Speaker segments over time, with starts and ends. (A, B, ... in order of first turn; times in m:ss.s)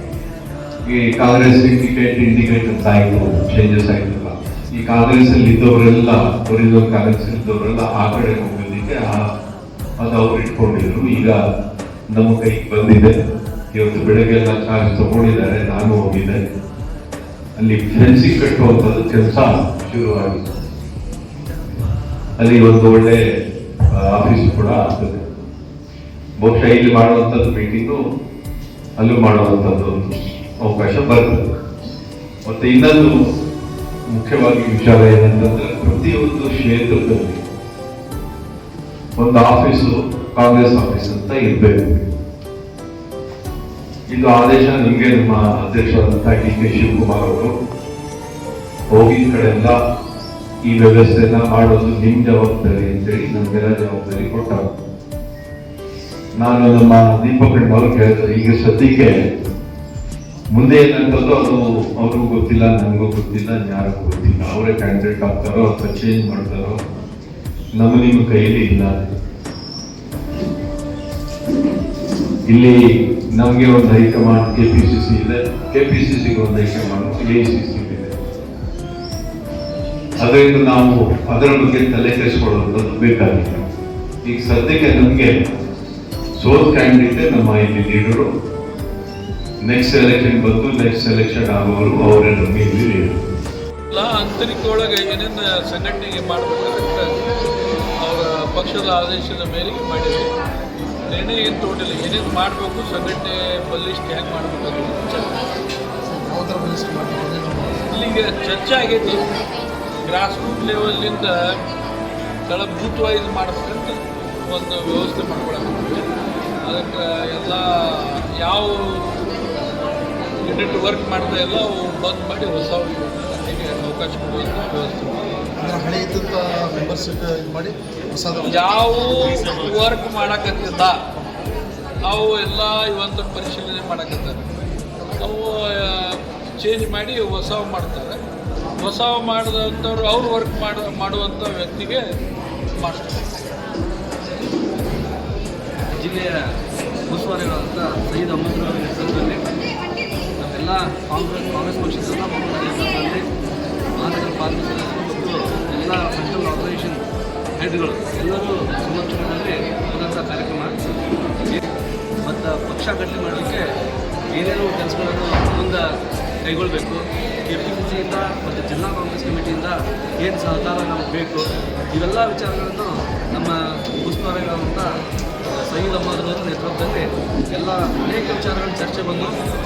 0:00.9-0:09.2 A
0:10.0-0:11.4 A
0:12.1-0:13.2 A
0:13.7-0:16.4 A
0:17.6-0:20.5 A
0:22.4-0:23.3 A
0:23.9-0:25.4 A
0:26.4-0:28.0 A
0:29.0-0:31.5 A
0:32.4-0:33.2 A
0:34.1-0:37.4 A
0:39.2-0:42.1 A
0:44.1-0:47.5 A
0:48.9-0:49.8 A
0:50.6-0:54.8 A
0:56.4-0:59.3 A
1:00.5-1:06.8 A
1:07.8-1:09.1 A
1:12.5-1:12.8 A
1:13.3-1:18.2 A
1:20.2-1:23.7 A
1:24.2-1:25.5 A
1:26.4-1:28.3 A
1:29.6-1:33.3 A
1:33.9-1:37.1 B
1:38.0-1:40.3 B
1:41.1-1:45.4 B
1:46.1-1:47.9 C
1:47.9-1:49.2 B
1:50.1-1:51.6 B
1:52.5-1:56.0 B
1:56.6-1:59.2 B
2:00.4-2:05.2 B
2:05.6-2:08.6 C
2:08.4-2:11.0 B
2:12.0-2:14.6 B
2:15.2-2:18.2 B
2:18.8-2:22.0 B
2:22.8-2:23.3 B
2:26.0-2:26.4 D
2:27.1-2:29.4 D
2:30.4-2:33.3 D
2:34.0-2:37.0 D
2:37.6-2:40.7 D
2:42.2-2:43.6 D
2:44.3-2:45.9 D
2:46.5-2:54.9 D
2:55.6-2:59.3 D